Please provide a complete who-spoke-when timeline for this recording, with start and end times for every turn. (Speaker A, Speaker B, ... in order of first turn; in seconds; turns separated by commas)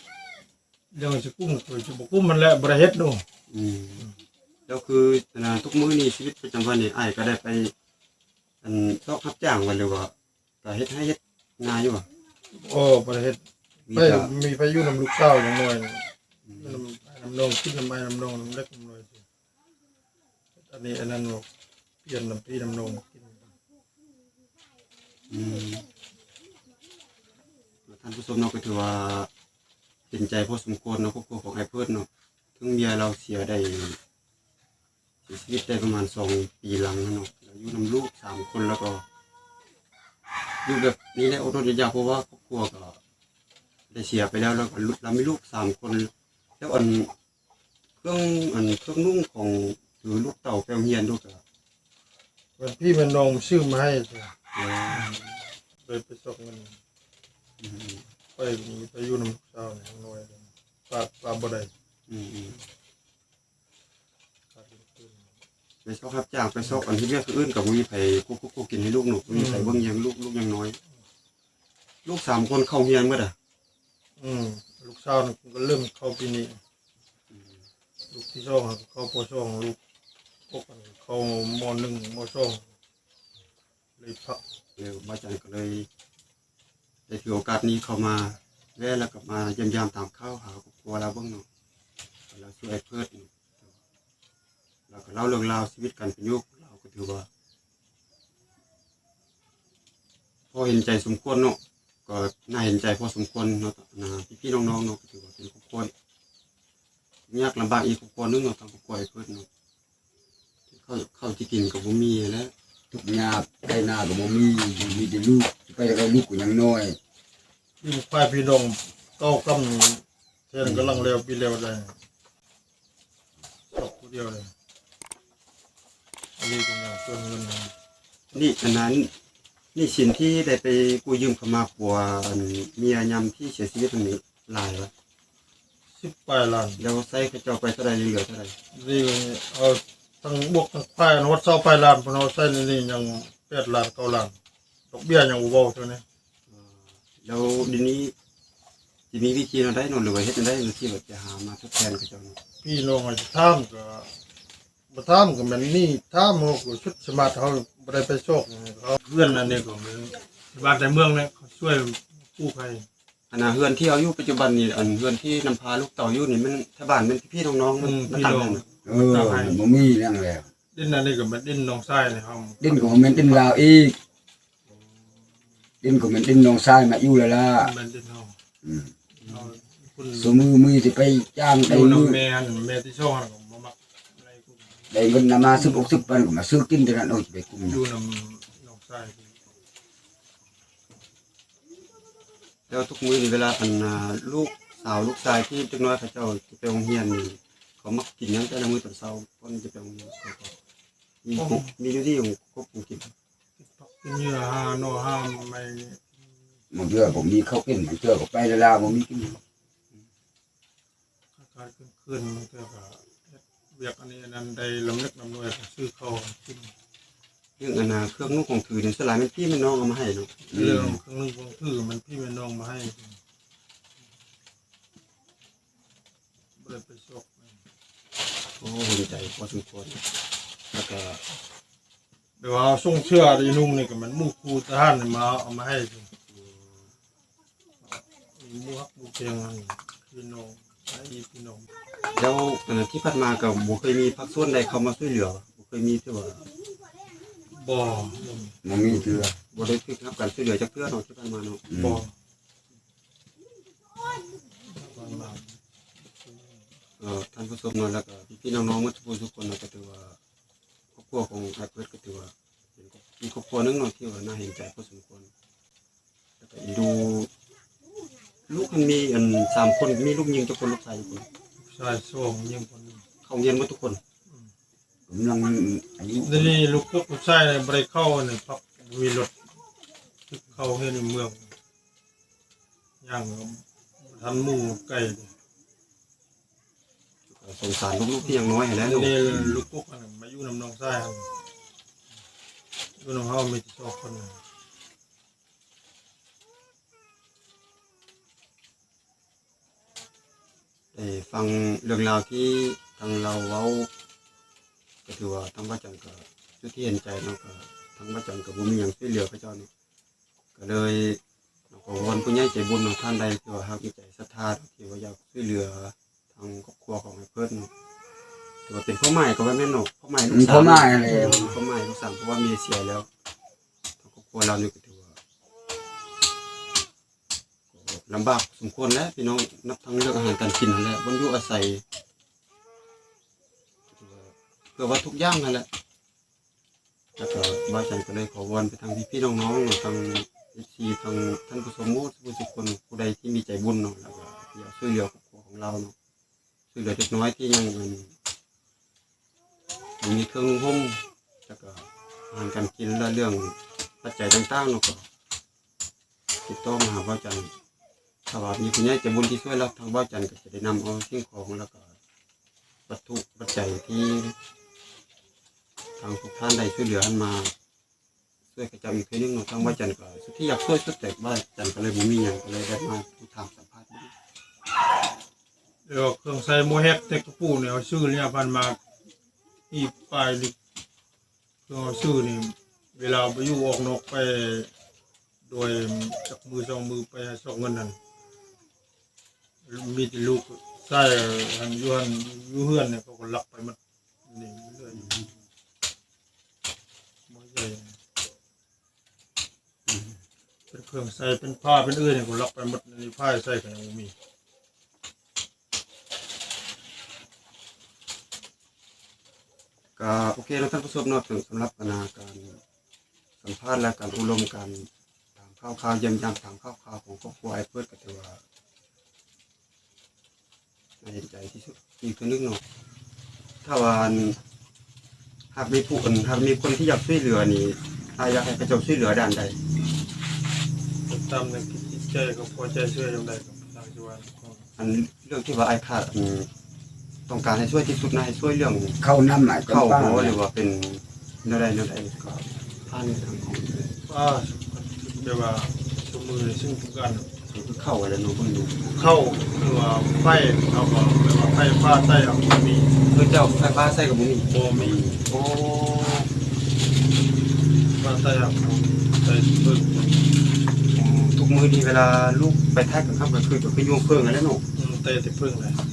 Speaker A: 0.9-3.2, Speaker B: 3.5-4.1, Speaker B: 4.7-7.7, Speaker B: 8.6-12.0, Speaker A: 12.5-13.4, Speaker B: 13.9-14.3, Speaker A: 13.9-16.0, Speaker B: 16.4-16.8, Speaker A: 16.6-19.2, Speaker A: 20.6-21.4, Speaker A: 22.0-23.5, Speaker B: 25.3-25.9, Speaker B: 27.9-29.3, Speaker B: 30.1-34.0, Speaker B: 35.2-39.0, Speaker B: 40.6-43.0, Speaker B: 43.9-47.1, Speaker B: 48.0-51.4, Speaker A: 52.6-54.3, Speaker B: 54.5-55.1, Speaker A: 54.9-56.8, Speaker B: 57.6-58.0, Speaker A: 58.4-61.7, Speaker B: 62.1-62.6, Speaker A: 64.5-65.2, Speaker B: 65.8-70.8, Speaker A: 69.3-69.8, Speaker B: 72.0-73.3, Speaker A: 74.2-76.6, Speaker A: 78.1-79.8, Speaker A: 80.5-82.6, Speaker A: 84.0-84.4, Speaker B: 84.8-85.9, Speaker B: 87.1-91.4, Speaker B: 92.3-93.7, Speaker B: 94.9-97.3, Speaker B: 100.5-105.9, Speaker B: 107.3-109.5, Speaker B: 110.7-112.5, Speaker C: 112.9-117.0, Speaker A: 117.8-121.9, Speaker B: 120.6-121.1, Speaker A: 123.7-124.5, Speaker A: 126.4-127.7, Speaker B: 128.3-129.1, Speaker B: 129.7-134.9, Speaker A: 136.0-136.8, Speaker B: 136.8-138.5, Speaker A: 138.7-144.3, Speaker A: 144.9-146.0, Speaker B: 146.5-148.1, Speaker B: 149.1-152.4, Speaker A: 152.6-154.1, Speaker A: 154.9-162.9, Speaker B: 163.3-168.6, Speaker A: 167.8-169.6, Speaker C: 168.8-170.5, Speaker A: 170.7-173.6, Speaker C: 172.6-174.0, Speaker C: 175.8-177.7, Speaker A: 177.6-178.3, Speaker C: 178.6-178.9, Speaker A: 179.2-180.4, Speaker C: 180.1-182.2, Speaker A: 181.6-184.9, Speaker C: 184.9-187.8, Speaker A: 185.4-186.2, Speaker A: 187.6-189.3, Speaker B: 192.7-200.5, Speaker B: 201.2-203.1, Speaker A: 201.3-201.7, Speaker A: 203.6-206.1, Speaker C: 206.7-209.4, Speaker A: 211.3-216.7, Speaker B: 217.6-220.3, Speaker A: 220.5-223.2, Speaker C: 220.5-221.0, Speaker A: 226.6-227.6, Speaker B: 228.6-230.0, Speaker B: 230.7-231.2, Speaker A: 232.4-236.1, Speaker B: 236.3-236.9, Speaker A: 237.8-241.7, Speaker B: 242.1-246.4, Speaker A: 247.5-248.6, Speaker C: 248.6-249.3, Speaker B: 248.8-251.6, Speaker C: 251.7-252.0, Speaker A: 251.7-252.1, Speaker A: 254.6-255.6, Speaker A: 256.2-256.6, Speaker B: 257.0-260.2, Speaker B: 260.9-265.3, Speaker B: 266.4-267.3, Speaker B: 268.5-271.2, Speaker A: 271.6-273.0, Speaker B: 273.2-274.0, Speaker C: 275.1-276.6, Speaker A: 276.2-279.3, Speaker A: 280.3-281.5, Speaker A: 283.0-285.3, Speaker B: 287.3-289.5, Speaker A: 288.2-291.3, Speaker A: 293.0-294.4, Speaker B: 300.9-303.9, Speaker B: 305.1-309.7, Speaker B: 310.6-311.2, Speaker B: 311.7-317.7, Speaker B: 318.6-323.1, Speaker C: 320.3-321.5, Speaker A: 321.0-321.5, Speaker B: 324.0-325.2, Speaker B: 327.7-331.8, Speaker B: 333.9-335.6, Speaker B: 337.2-345.9, Speaker B: 346.7-348.1, Speaker B: 350.0-355.0, Speaker B: 356.4-357.5, Speaker B: 358.3-361.9, Speaker B: 362.9-364.3, Speaker B: 366.0-367.5, Speaker B: 368.5-374.1, Speaker A: 375.9-378.8, Speaker A: 379.7-380.5, Speaker A: 381.7-384.7, Speaker A: 385.5-388.0, Speaker A: 389.6-395.2, Speaker B: 394.9-395.3, Speaker A: 397.3-397.9, Speaker B: 399.9-400.2, Speaker A: 400.7-404.1, Speaker B: 410.0-412.6, Speaker B: 413.4-418.4, Speaker B: 421.0-422.6, Speaker B: 423.6-424.4, Speaker B: 425.5-429.6, Speaker A: 431.1-434.6, Speaker B: 434.8-436.5, Speaker B: 437.3-439.0, Speaker C: 439.0-440.4, Speaker B: 439.6-443.9, Speaker A: 444.1-447.3, Speaker B: 447.5-448.9, Speaker A: 448.9-452.9, Speaker B: 453.1-456.3, Speaker A: 454.5-455.1, Speaker A: 458.0-460.3, Speaker B: 460.9-464.6, Speaker A: 464.7-465.8